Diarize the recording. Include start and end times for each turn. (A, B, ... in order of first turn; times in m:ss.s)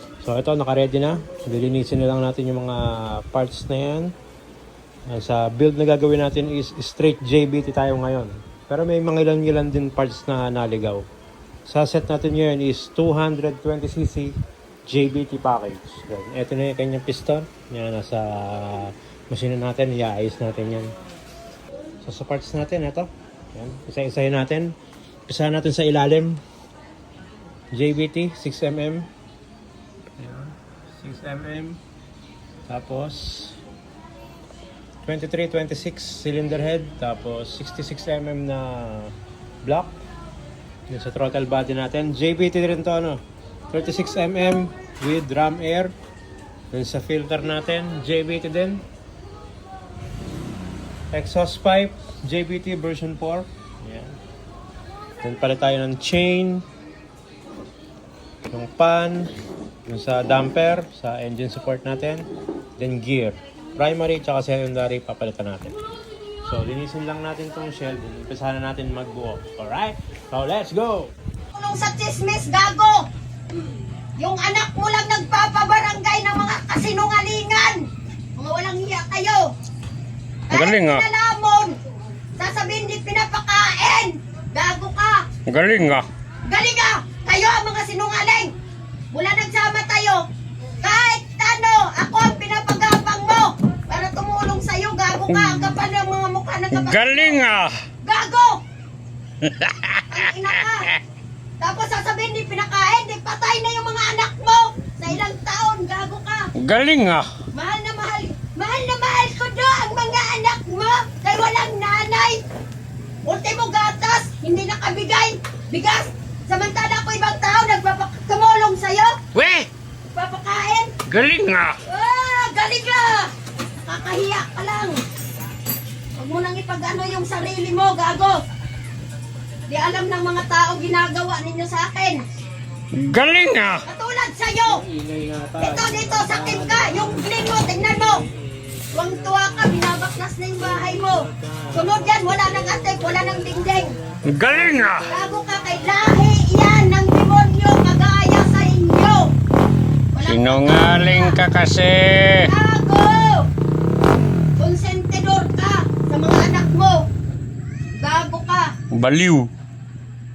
0:00.2-0:04.2 A
0:05.1-0:11.0 A
0:11.7-0:20.9 A
0:22.0-0:24.8 A
0:25.3-0:26.4 A
0:27.7-0:29.1 A
0:30.2-0:31.8 A
0:32.7-0:33.6 A
0:35.0-0:40.0 A
0:40.9-0:46.0 A
0:46.7-0:48.8 A
0:51.1-0:54.2 A
0:55.2-0:56.7 A
0:58.5-0:59.3 A
0:59.9-1:05.8 A
1:06.4-1:11.1 A
1:11.5-1:13.1 B
1:14.2-1:17.9 B
1:18.4-1:19.5 B
1:20.5-1:21.8 B
1:20.5-1:21.0 C
1:22.4-1:25.3 B
1:25.5-1:26.1 C
1:26.5-1:28.5 B
1:29.1-1:30.2 B
1:30.8-1:37.4 B
1:35.3-1:35.7 C
1:36.7-1:37.8 C
1:38.0-1:38.6 B
1:39.4-1:41.0 C
1:40.1-1:40.9 B
1:41.6-1:46.5 B
1:46.6-1:47.3 C
1:47.5-1:52.4 B
1:53.3-1:59.2 B
1:59.3-1:59.7 C
2:00.1-2:00.9 B
2:01.1-2:01.8 C
2:01.8-2:03.3 B
2:03.8-2:05.0 B
2:06.2-2:08.4 B
2:09.7-2:12.2 B
2:12.9-2:13.8 C
2:13.9-2:14.8 B
2:14.7-2:17.2 A
2:15.6-2:18.2 B
2:18.9-2:23.9 B
2:24.3-2:25.1 C
2:25.1-2:29.3 B
2:30.1-2:31.4 B
2:30.2-2:32.5 C
2:32.5-2:33.5 B
2:34.6-2:37.0 B
2:38.0-2:38.7 B
2:38.9-2:39.5 C